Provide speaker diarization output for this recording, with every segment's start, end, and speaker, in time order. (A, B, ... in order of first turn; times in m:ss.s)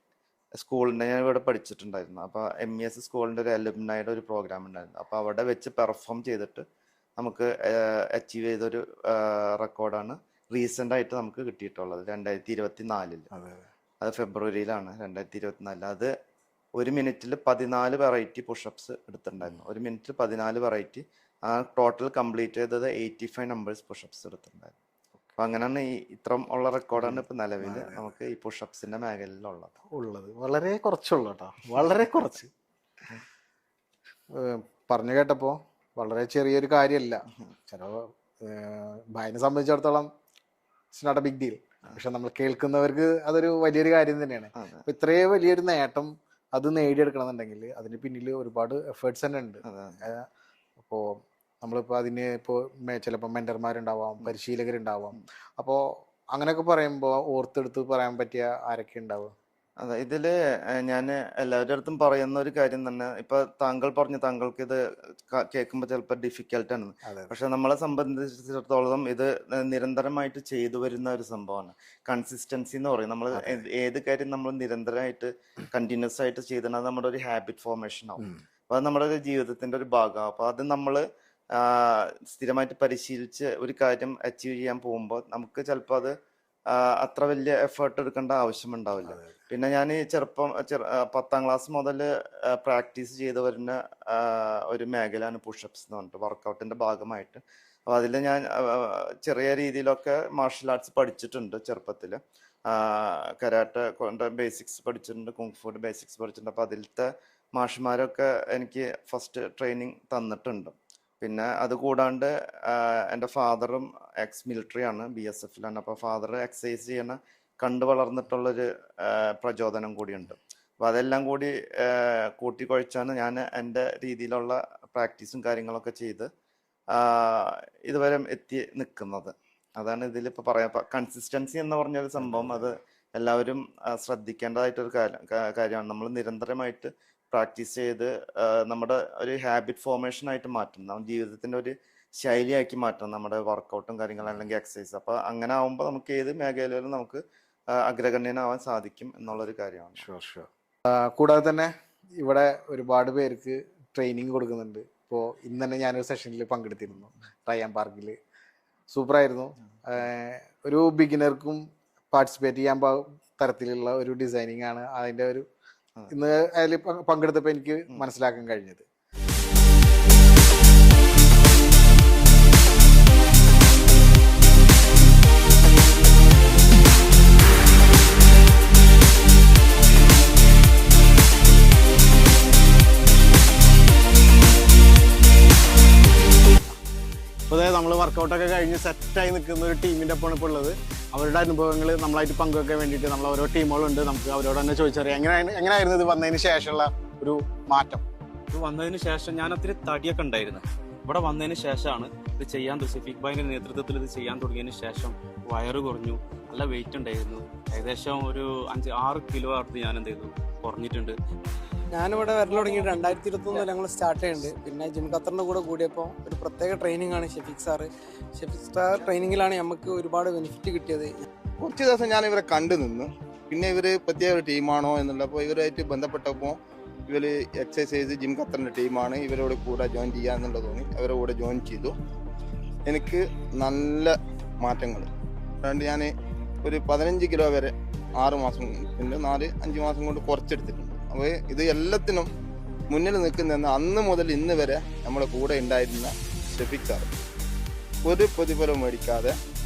0:00.6-0:06.6 A
0:07.2-0:13.3 A
0:13.3-0:13.7 B
0:14.0-0:16.1 A
0:16.8-0:24.8 A
0:25.4-0:29.7 A
0:27.0-0:28.1 B
0:29.9-0:32.5 B
0:34.3-0:40.1 B
0:40.9-0:50.2 B
0:44.6-0:44.8 A
0:49.6-0:50.0 A
0:50.8-0:59.3 B
0:59.8-1:21.0 A
1:07.1-1:07.3 B
1:13.3-1:13.6 B
1:21.6-1:26.1 A
1:26.7-2:06.3 A
1:29.0-1:29.4 B
2:06.9-2:27.2 A
2:12.2-2:12.7 B
2:27.7-2:30.1 A
2:30.0-2:38.2 B
2:38.9-2:41.6 B
2:42.1-2:45.4 B
2:46.1-2:48.8 B
3:07.5-3:18.0 B
3:18.5-3:31.2 C
3:31.9-3:41.2 D
3:32.5-3:33.7 E
3:41.6-3:46.6 E
3:47.1-3:52.0 E
3:52.8-3:55.1 E
3:55.6-4:02.3 E
4:02.9-4:07.1 E
4:08.0-4:09.3 E